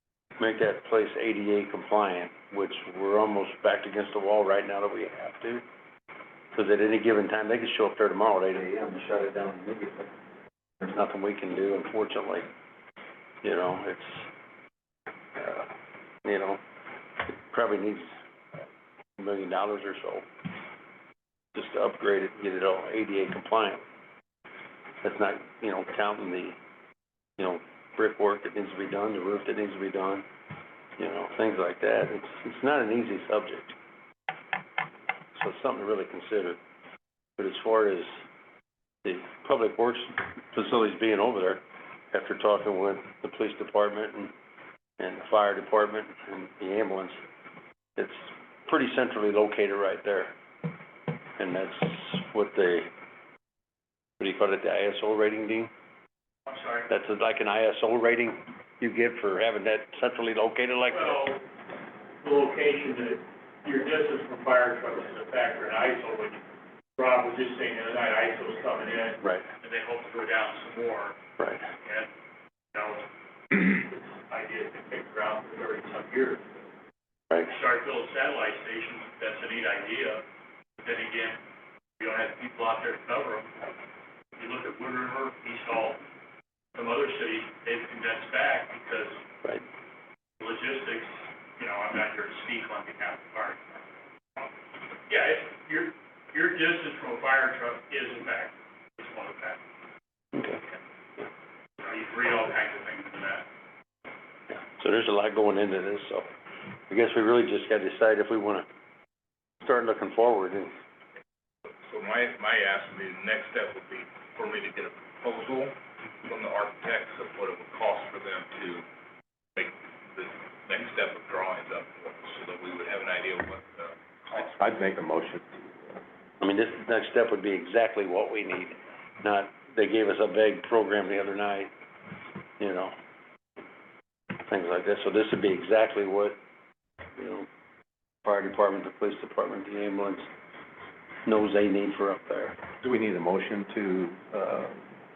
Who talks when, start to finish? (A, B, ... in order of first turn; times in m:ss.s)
0:00.4-0:05.6 A
0:06.5-0:10.1 A
0:10.8-0:12.5 A
0:13.4-0:14.3 A
0:15.4-0:15.7 A
0:16.2-0:16.6 A
0:17.3-0:18.1 A
0:19.2-0:20.3 A
0:21.6-0:23.8 A
0:25.0-0:26.6 A
0:27.4-0:30.3 A
0:31.0-0:33.8 A
0:35.4-0:36.6 A
0:37.4-0:38.1 A
0:39.0-0:44.3 A
0:45.0-0:47.2 A
0:48.0-0:50.4 A
0:51.4-0:52.9 A
0:54.2-0:55.7 A
0:56.5-0:56.9 B
0:56.9-1:01.2 A
1:00.9-1:01.4 B
1:02.2-1:06.4 B
1:07.0-1:11.2 B
1:11.4-1:11.6 A
1:11.8-1:12.1 B
1:12.7-1:16.4 B
1:17.5-1:20.2 B
1:20.8-1:21.4 B
1:22.0-1:23.7 B
1:24.4-1:26.0 B
1:26.8-1:29.2 B
1:30.4-1:33.6 B
1:35.1-1:39.6 B
1:41.8-1:43.5 B
1:44.7-1:46.3 A
1:46.9-1:48.7 A
1:49.6-1:50.7 A
1:51.6-1:58.9 C
1:59.6-2:04.4 C
2:04.4-2:06.0 D
2:06.4-2:11.7 A
2:12.6-2:12.9 A
2:14.4-2:16.4 A
2:17.2-2:17.5 A
2:18.2-2:20.3 A
2:21.3-2:22.6 A
2:22.8-2:24.8 D